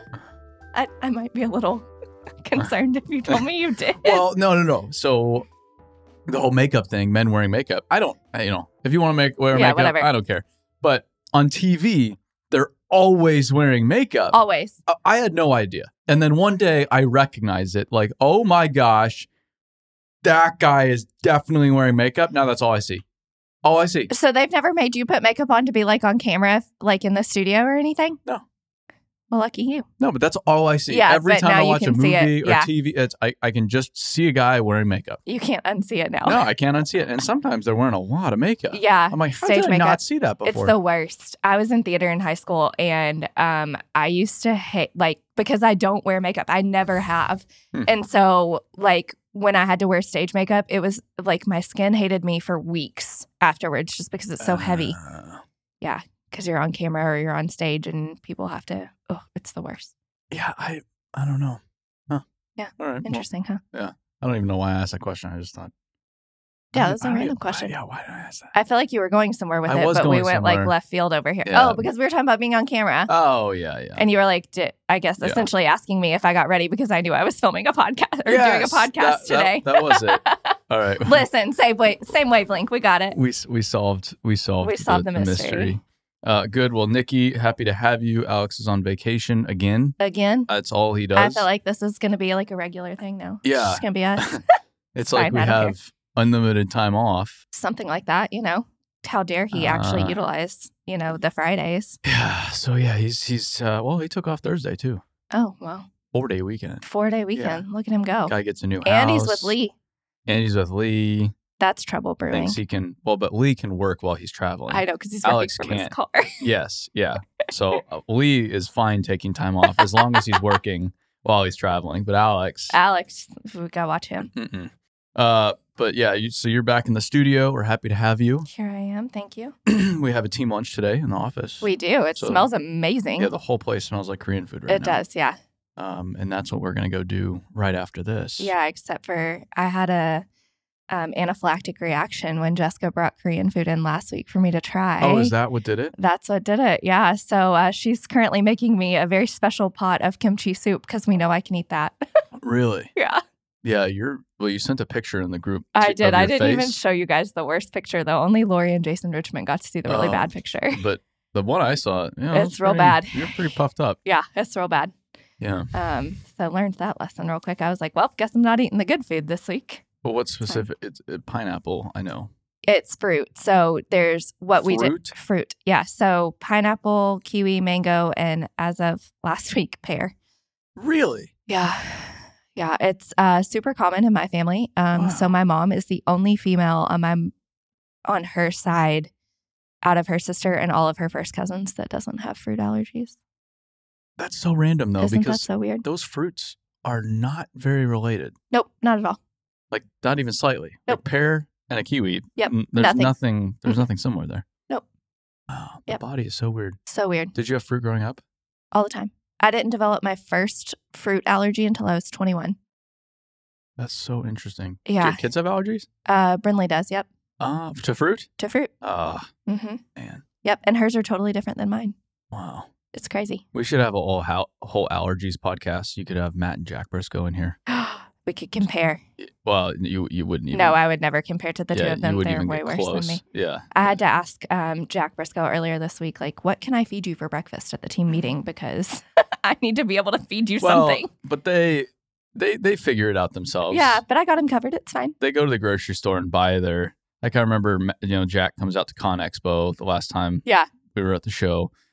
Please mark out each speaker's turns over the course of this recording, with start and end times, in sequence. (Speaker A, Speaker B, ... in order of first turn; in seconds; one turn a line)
Speaker A: 0.7-1.9
Speaker A: 2.4-4.2
Speaker B: 4.0-5.5
Speaker B: 6.3-14.4
Speaker A: 9.5-10.1
Speaker A: 14.3-14.8
Speaker B: 14.9-19.3
Speaker B: 20.2-23.0
Speaker B: 23.6-24.1
Speaker A: 24.1-28.2
Speaker A: 29.3-29.9
Speaker B: 30.0-35.2
Speaker A: 30.9-32.7
Speaker A: 35.3-36.4
Speaker B: 36.2-40.7
Speaker A: 38.7-55.0
Speaker B: 54.4-55.4
Speaker A: 55.8-59.9
Speaker B: 60.3-62.2
Speaker A: 62.6-63.6
Speaker B: 62.8-65.7
Speaker A: 66.7-67.7
Speaker B: 66.7-68.5
Speaker A: 68.5-73.1
Speaker B: 69.7-70.7
Speaker B: 71.5-71.8
Speaker B: 73.1-74.0
Speaker A: 74.0-83.2
Speaker B: 75.2-75.5
Speaker B: 78.3-81.3
Speaker B: 83.1-90.0
Speaker A: 84.6-85.8
Speaker A: 90.0-90.5
Speaker B: 90.5-91.5
Speaker A: 91.2-94.4
Speaker B: 93.4-94.4
Speaker B: 95.0-97.4
Speaker A: 95.1-95.8
Speaker A: 97.5-102.0
Speaker B: 99.5-100.2
Speaker B: 102.0-105.0
Speaker A: 105.3-105.9
Speaker B: 106.1-106.8
Speaker A: 106.8-109.7
Speaker B: 107.3-107.6
Speaker B: 108.3-109.6
Speaker B: 110.3-111.3
Speaker A: 111.6-112.6
Speaker B: 112.3-122.8
Speaker A: 114.7-116.4
Speaker A: 119.7-120.4
Speaker A: 122.7-124.3
Speaker B: 124.3-128.5
Speaker A: 128.5-129.6
Speaker B: 129.7-132.5
Speaker A: 131.6-133.3
Speaker B: 133.2-135.0
Speaker A: 134.7-135.4
Speaker B: 135.8-138.5
Speaker A: 138.4-140.2
Speaker A: 140.9-145.3
Speaker B: 145.0-145.9
Speaker A: 146.0-152.0
Speaker B: 152.4-152.9
Speaker A: 153.0-153.2
Speaker B: 153.6-156.8
Speaker A: 155.8-160.8
Speaker B: 159.9-164.0
Speaker A: 162.3-163.5
Speaker A: 164.1-164.9
Speaker B: 165.4-165.7
Speaker A: 165.7-169.8
Speaker B: 170.0-172.3
Speaker A: 172.6-180.1
Speaker B: 174.6-175.1
Speaker B: 180.8-181.3
Speaker A: 181.5-187.3
Speaker B: 184.9-185.3
Speaker A: 188.1-189.1
Speaker A: 189.8-193.2
Speaker B: 194.2-198.3
Speaker A: 195.0-195.8
Speaker A: 198.5-199.2
Speaker B: 199.7-204.4
Speaker A: 202.4-203.1
Speaker B: 205.5-206.8
Speaker A: 206.9-207.3
Speaker B: 207.3-208.2
Speaker A: 208.7-212.6
Speaker B: 213.8-215.9
Speaker A: 214.9-215.2
Speaker A: 216.1-217.1
Speaker B: 217.4-218.3
Speaker A: 218.4-218.7
Speaker B: 218.8-219.3
Speaker A: 219.5-219.8
Speaker B: 220.0-220.2
Speaker A: 220.4-221.9
Speaker B: 222.3-222.7
Speaker A: 222.9-223.4
Speaker B: 223.5-227.6
Speaker A: 227.7-229.0
Speaker B: 229.2-230.8
Speaker A: 230.5-233.2
Speaker B: 231.7-233.8
Speaker A: 233.7-241.1
Speaker B: 240.6-244.0
Speaker A: 243.7-245.2
Speaker B: 245.2-251.7